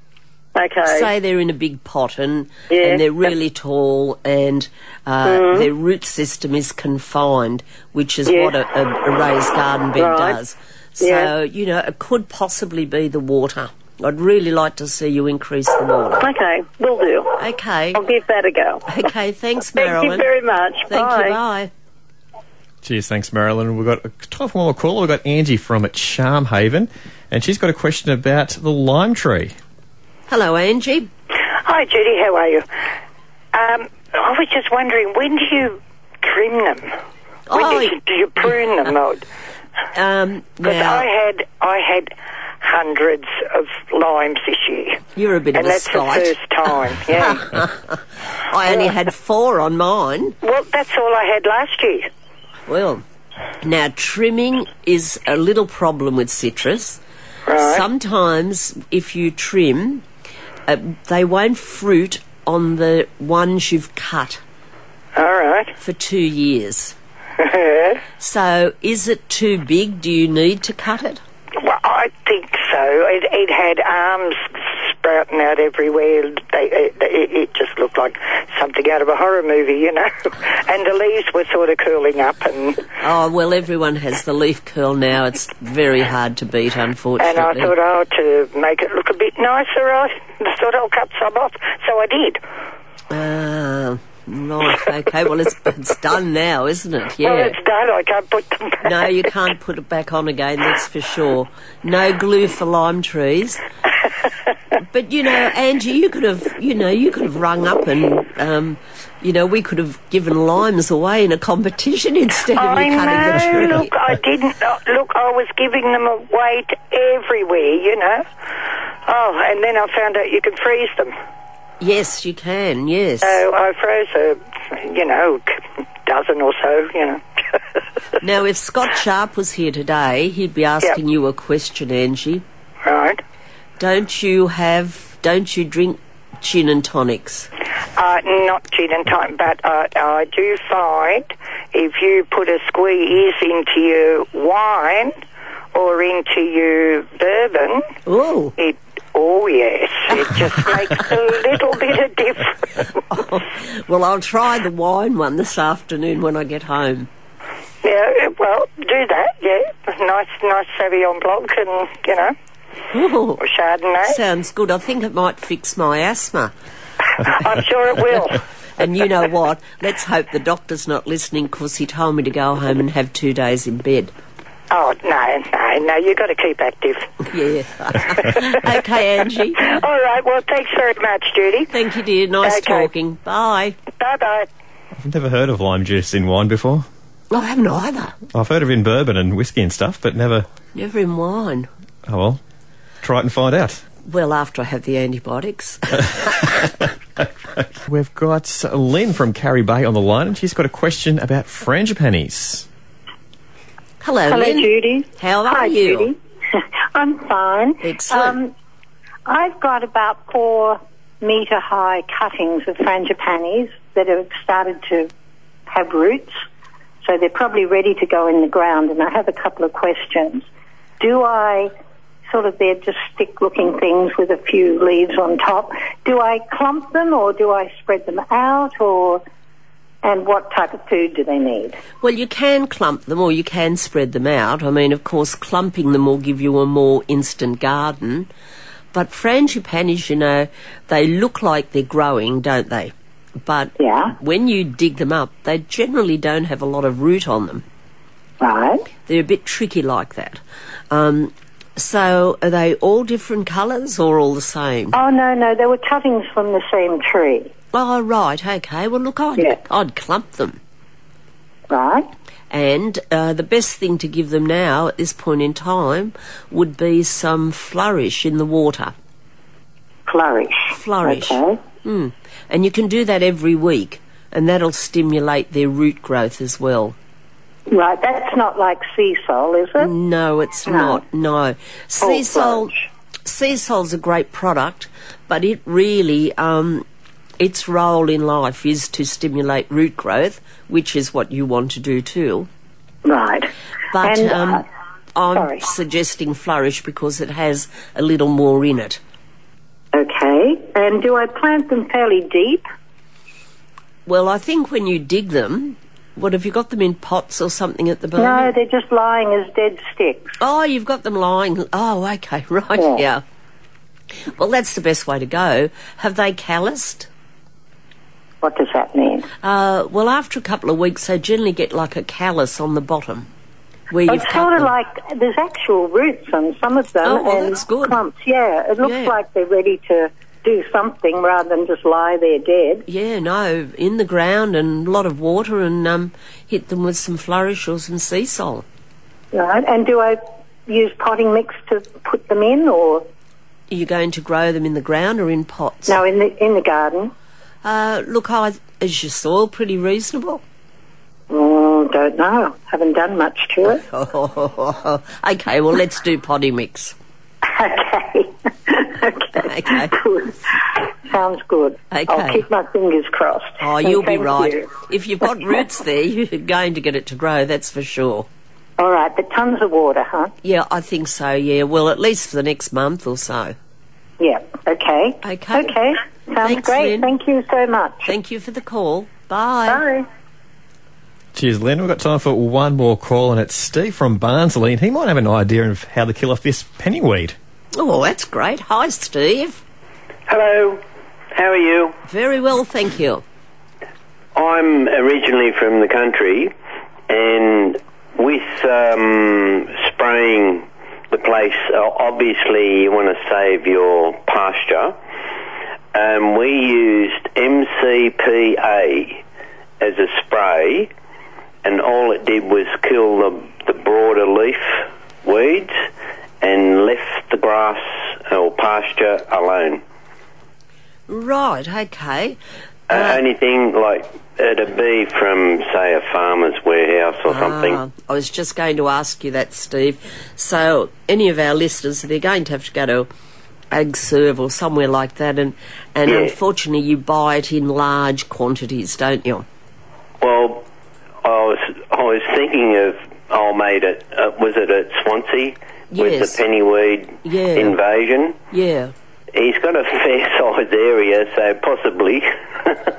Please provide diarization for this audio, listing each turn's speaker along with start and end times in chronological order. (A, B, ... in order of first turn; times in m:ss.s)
0:00.5-0:01.1 A
0:00.8-0:16.3 B
0:02.7-0:03.0 A
0:05.2-0:05.7 A
0:08.2-0:08.6 A
0:10.0-0:10.4 A
0:11.0-0:11.3 A
0:16.2-0:17.4 A
0:17.4-0:18.0 B
0:17.9-0:19.0 A
0:18.8-0:20.3 B
0:19.8-0:21.4 A
0:20.9-0:21.7 B
0:22.8-0:29.5 C
0:30.3-0:31.1 B
0:31.6-0:32.6 D
0:33.5-0:36.9 D
0:37.5-0:38.0 B
0:37.5-0:39.2 D
0:39.9-0:41.1 B
0:40.6-0:47.6 D
0:45.1-0:46.3 B
0:47.1-0:50.4 B
0:50.4-0:52.1 D
0:52.7-0:53.0 B
0:53.6-0:57.0 B
0:57.5-0:57.8 D
0:57.6-1:00.0 B
1:00.7-1:04.4 B
1:05.2-1:05.7 D
1:05.8-1:06.9 B
1:07.4-1:08.0 D
1:08.2-1:11.2 B
1:11.6-1:22.8 D
1:23.0-1:27.7 B
1:27.2-1:32.4 D
1:33.1-1:37.6 B
1:37.2-1:38.8 D
1:38.8-1:43.6 B
1:44.8-1:53.9 B
1:52.6-1:58.3 D
1:59.0-2:01.1 D
2:01.8-2:03.4 B
2:03.2-2:07.2 D
2:08.2-2:12.4 B
2:12.8-2:13.2 D
2:13.8-2:17.5 B
2:17.9-2:25.1 D
2:25.7-2:27.9 D
2:28.0-2:28.5 B
2:28.6-2:32.9 D
2:33.1-2:37.1 B
2:37.8-2:42.3 D
2:42.9-2:43.4 B
2:43.4-2:44.2 D
2:44.0-2:46.5 B
2:47.1-2:48.4 D
2:48.8-2:54.1 B
2:54.7-2:57.1 D
2:57.3-2:59.7 B
2:58.2-2:58.6 D
2:59.6-3:01.7 D
3:01.7-3:03.8 B
3:02.4-3:02.9 D
3:03.9-3:04.5 D
3:05.0-3:06.8 C
3:07.3-3:08.2 B
3:08.3-3:10.4 C
3:10.7-3:11.7 B
3:12.0-3:12.4 C
3:13.0-3:13.8 C
3:14.0-3:16.6 B
3:17.9-3:22.6 C
3:24.0-3:26.1 B
3:24.3-3:28.5 E
3:27.8-3:28.4 B
3:29.2-3:35.1 E
3:35.7-3:36.4 E
3:37.0-3:40.4 E
3:41.0-3:41.7 E
3:42.3-3:49.2 E
3:50.0-3:51.8 E
3:52.0-3:58.3 B
3:58.9-4:07.6 B
4:03.8-4:04.1 E
4:08.4-4:08.9 E
4:09.0-4:15.0 B
4:14.9-4:17.5 E
4:17.7-4:20.6 B
4:21.7-4:22.1 E
4:22.5-4:28.9 B
4:30.1-4:31.6 E
4:30.7-4:36.9 B
4:37.7-4:39.9 E
4:39.8-4:46.8 B
4:40.6-4:41.0 E
4:42.0-4:42.8 E
4:47.4-4:52.5 B
4:53.0-4:54.6 E
4:53.9-4:59.0 B
4:55.3-4:55.6 E
4:59.9-5:02.6 E
5:04.0-5:08.5 B
5:08.2-5:10.3 E
5:10.4-5:13.2 B
5:12.7-5:13.0 E
5:14.3-5:17.1 B
5:18.4-5:19.3 E
5:19.4-5:23.3 B
5:23.9-5:24.7 B
5:24.1-5:32.8 E
5:27.0-5:28.0 B
5:28.8-5:29.2 B
5:32.8-5:38.6 B
5:39.3-5:43.1 E
5:43.7-5:46.0 B
5:45.9-5:47.1 E
5:47.6-5:50.4 B
5:51.3-5:53.8 E
5:53.7-5:56.9 B
5:57.4-6:04.7 E
5:59.4-6:00.0 B
6:01.9-6:02.4 B
6:03.6-6:08.3 B
6:08.8-6:10.3 E
6:10.4-6:13.5 B
6:14.2-6:18.1 E
6:15.2-6:15.7 B
6:16.4-6:17.1 B
6:18.0-6:19.8 B
6:19.7-6:20.0 E
6:21.3-6:27.3 C
6:27.8-6:29.6 B
6:30.3-6:30.8 F
6:31.3-6:32.0 F
6:32.0-6:33.2 B
6:34.3-6:36.5 F
6:37.1-6:44.9 F
6:45.9-6:49.2 F
6:49.8-6:50.9 F
6:51.6-6:55.8 F
6:56.4-6:59.8 F
7:01.1-7:02.4 B
7:02.9-7:07.8 F
7:02.9-7:03.2 B
7:07.3-7:13.1 B
7:13.7-7:19.4 B
7:16.0-7:16.4 F
7:20.2-7:20.6 F
7:21.2-7:28.4 F
7:25.9-7:26.4 B
7:27.2-7:27.8 B
7:28.5-7:28.9 B
7:29.3-7:32.8 F